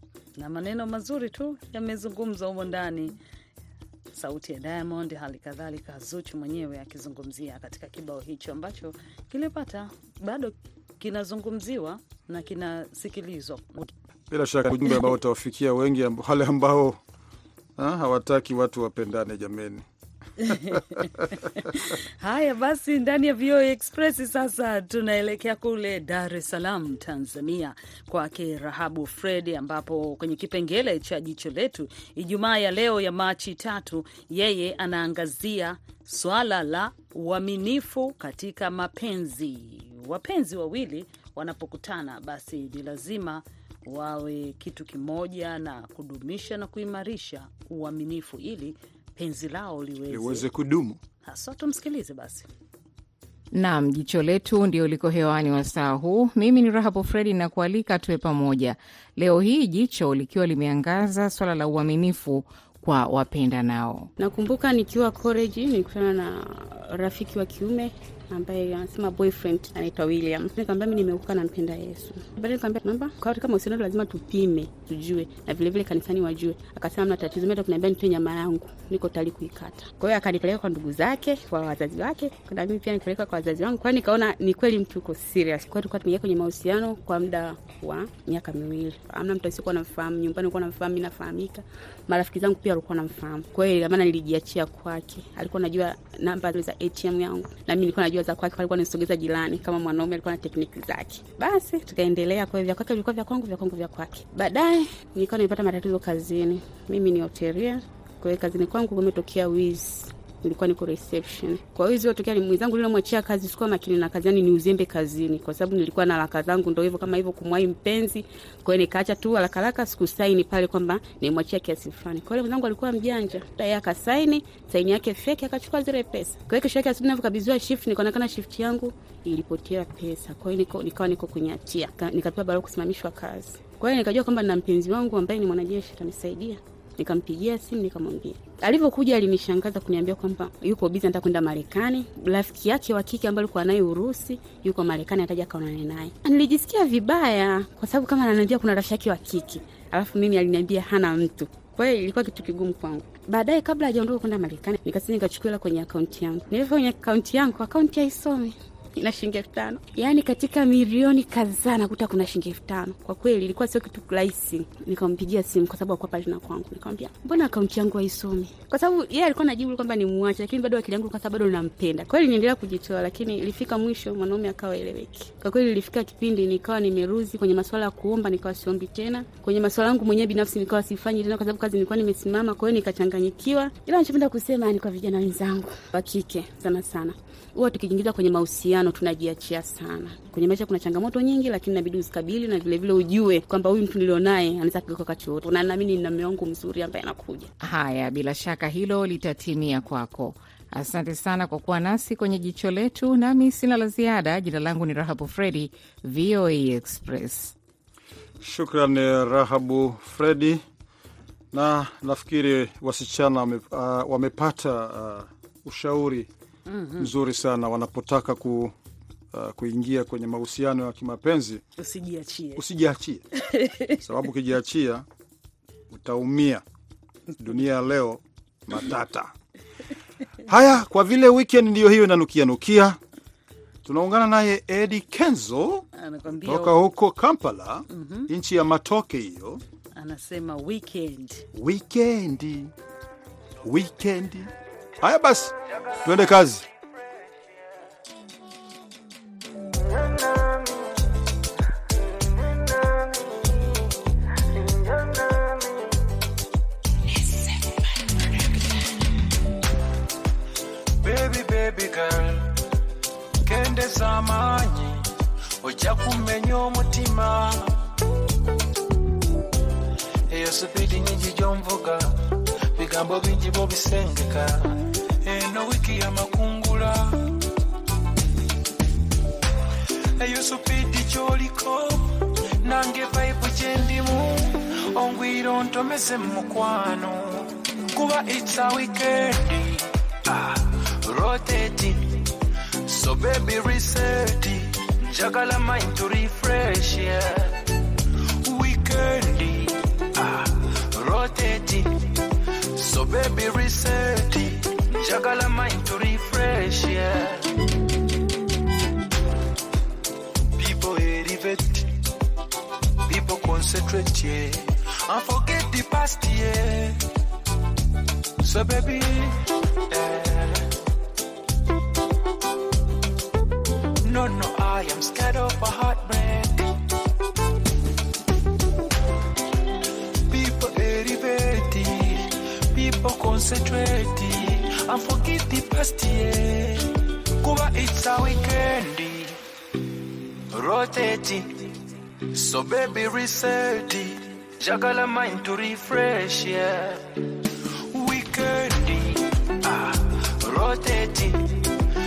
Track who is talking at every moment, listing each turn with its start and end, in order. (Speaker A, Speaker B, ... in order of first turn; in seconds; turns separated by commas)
Speaker A: 0.4-3.1, Speaker A: 4.1-13.9, Speaker B: 14.3-17.0, Speaker B: 17.8-19.9, Speaker A: 20.4-50.5, Speaker B: 50.1-51.0, Speaker A: 51.2-52.5, Speaker C: 53.5-64.1, Speaker D: 64.2-197.5, Speaker C: 197.6-207.6, Speaker B: 208.4-210.6, Speaker B: 211.5-216.3, Speaker A: 216.7-217.1, Speaker B: 217.0-218.8, Speaker B: 219.3-221.6, Speaker A: 221.8-222.6, Speaker B: 222.6-223.2, Speaker A: 223.4-224.0, Speaker B: 224.0-225.1, Speaker B: 225.9-226.6, Speaker B: 227.4-229.3, Speaker B: 230.5-233.0, Speaker B: 233.8-239.6, Speaker A: 236.0-236.8, Speaker A: 237.9-238.3, Speaker A: 240.0-241.5, Speaker B: 241.5-242.7, Speaker B: 243.6-246.7, Speaker E: 261.0-262.6, Speaker E: 263.4-265.1, Speaker E: 265.6-267.7, Speaker E: 270.3-277.3, Speaker E: 280.2-292.3, Speaker E: 292.9-297.7, Speaker E: 298.4-302.1, Speaker E: 302.8-307.5, Speaker E: 310.6-311.9, Speaker E: 313.1-317.0, Speaker E: 318.4-320.7, Speaker E: 324.1-326.8, Speaker E: 330.3-339.4, Speaker E: 340.5-341.7, Speaker E: 342.3-347.2, Speaker E: 347.9-351.7